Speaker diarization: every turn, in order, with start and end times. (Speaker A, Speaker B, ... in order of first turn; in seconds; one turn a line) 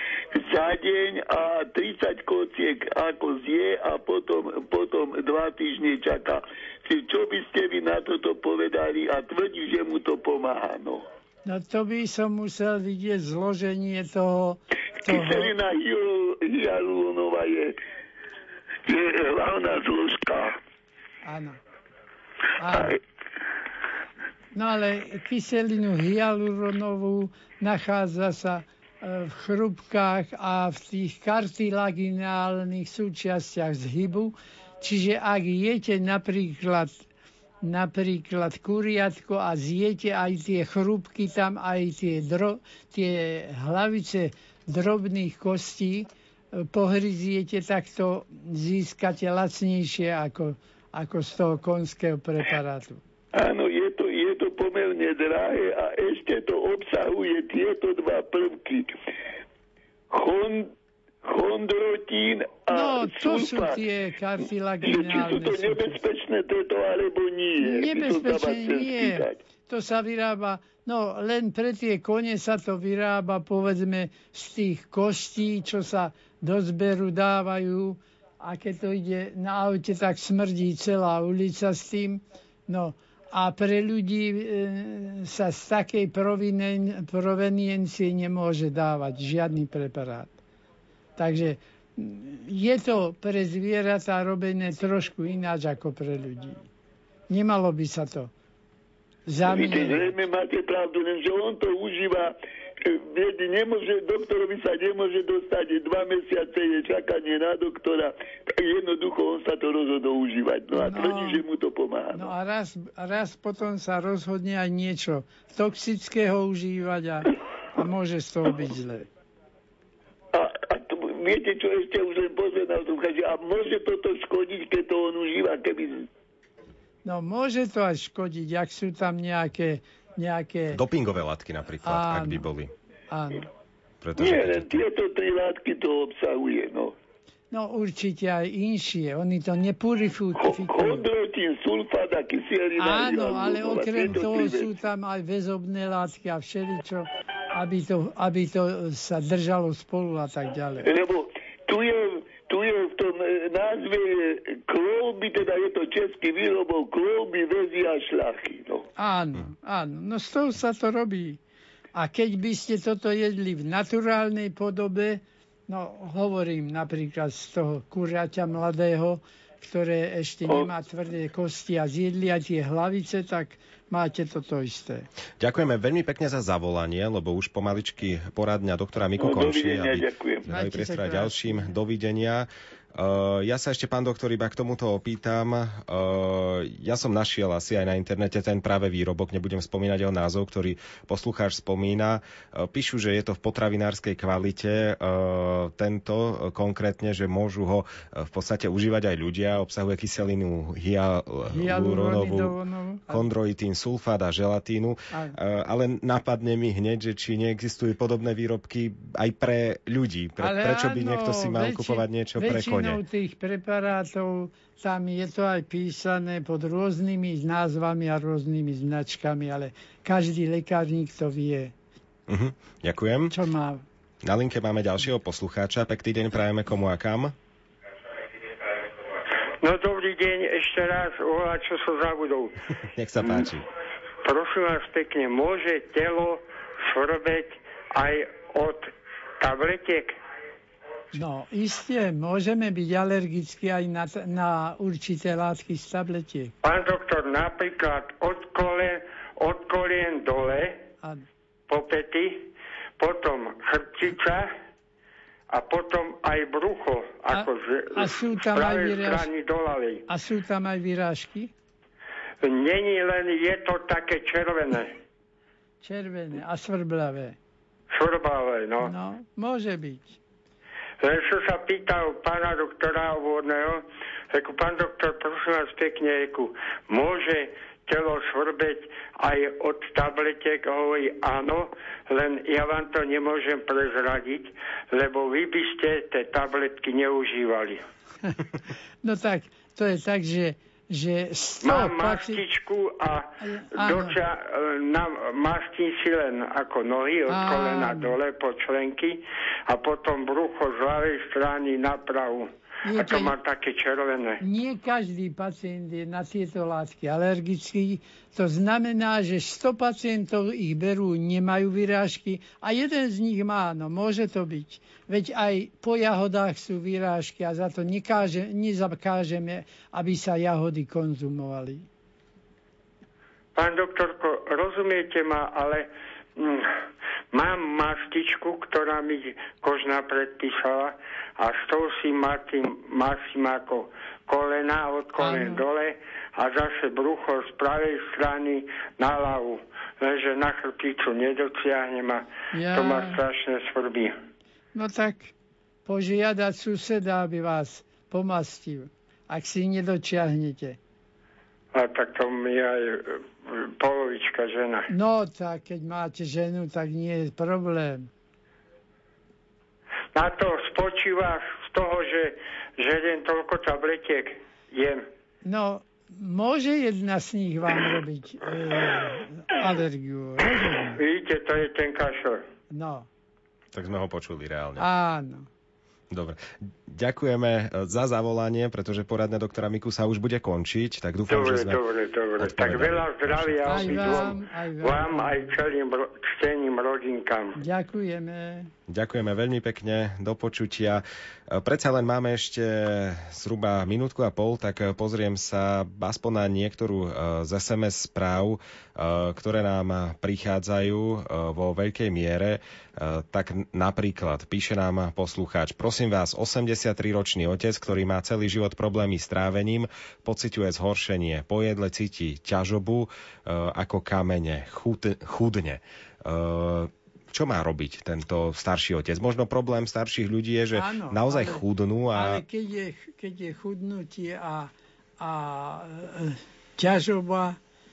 Speaker A: 0.3-11.0
Speaker B: 11.4-15.5
Speaker A: 15.0-17.7
Speaker A: 18.9-20.6
Speaker B: 21.2-21.6
Speaker B: 22.6-22.9
Speaker A: 22.7-23.0
Speaker B: 24.5-37.0
Speaker B: 37.6-53.0
Speaker A: 53.3-58.9
Speaker A: 60.1-60.7
Speaker A: 61.2-63.8
Speaker B: 62.7-66.0
Speaker A: 64.8-69.4
Speaker B: 67.6-90.3
Speaker B: 91.2-96.7
Speaker B: 97.3-98.3
Speaker B: 99.3-100.1
Speaker A: 99.4-112.3
Speaker B: 110.7-111.4
Speaker B: 112.1-119.1
Speaker A: 120.3-126.1
Speaker B: 127.0-130.8
Speaker C: 130.7-132.7
Speaker B: 131.8-132.4
Speaker B: 133.1-133.4
Speaker C: 134.0-134.8
Speaker A: 134.2-136.9
Speaker B: 137.5-141.1
Speaker A: 140.3-144.7
Speaker B: 142.8-150.9
Speaker A: 150.8-158.8
Speaker B: 159.0-161.4
Speaker B: 161.9-175.1
Speaker A: 170.4-170.7
Speaker C: 175.4-202.6
Speaker A: 179.2-180.5
Speaker B: 180.5-181.7
Speaker B: 201.5-203.3
Speaker C: 203.1-213.0
Speaker B: 205.1-205.4
Speaker B: 210.4-221.7
Speaker C: 222.3-223.3
Speaker B: 223.3-223.8
Speaker C: 224.2-227.3
Speaker D: 229.6-232.5
Speaker C: 232.9-233.6
Speaker D: 234.2-240.1
Speaker B: 241.1-246.5
Speaker D: 246.6-250.8
Speaker D: 251.7-254.5
Speaker D: 255.5-260.0
Speaker B: 257.3-259.3
Speaker B: 260.1-261.5
Speaker D: 262.4-265.0
Speaker B: 265.8-267.4
Speaker D: 267.9-268.9
Speaker B: 268.8-270.2
Speaker D: 271.0-287.8
Speaker B: 289.0-292.4
Speaker D: 291.6-304.4
Speaker B: 293.4-294.2
Speaker B: 297.3-298.2
Speaker B: 302.8-303.3
Speaker B: 304.4-321.9
Speaker D: 323.5-326.7
Speaker D: 327.3-344.1
Speaker B: 335.2-335.6
Speaker B: 342.5-343.2
Speaker B: 344.7-345.3
Speaker B: 345.9-350.8
Speaker D: 351.7-354.9
Speaker B: 354.9-358.1
Speaker D: 360.1-365.0
Speaker B: 365.4-371.0
Speaker D: 370.9-372.4
Speaker B: 372.7-373.1
Speaker C: 373.7-374.9
Speaker B: 374.8-375.5
Speaker C: 376.1-381.8
Speaker D: 381.3-387.6
Speaker C: 382.4-384.3
Speaker B: 383.6-385.4
Speaker B: 387.6-388.7
Speaker C: 388.9-422.4
Speaker B: 420.7-427.6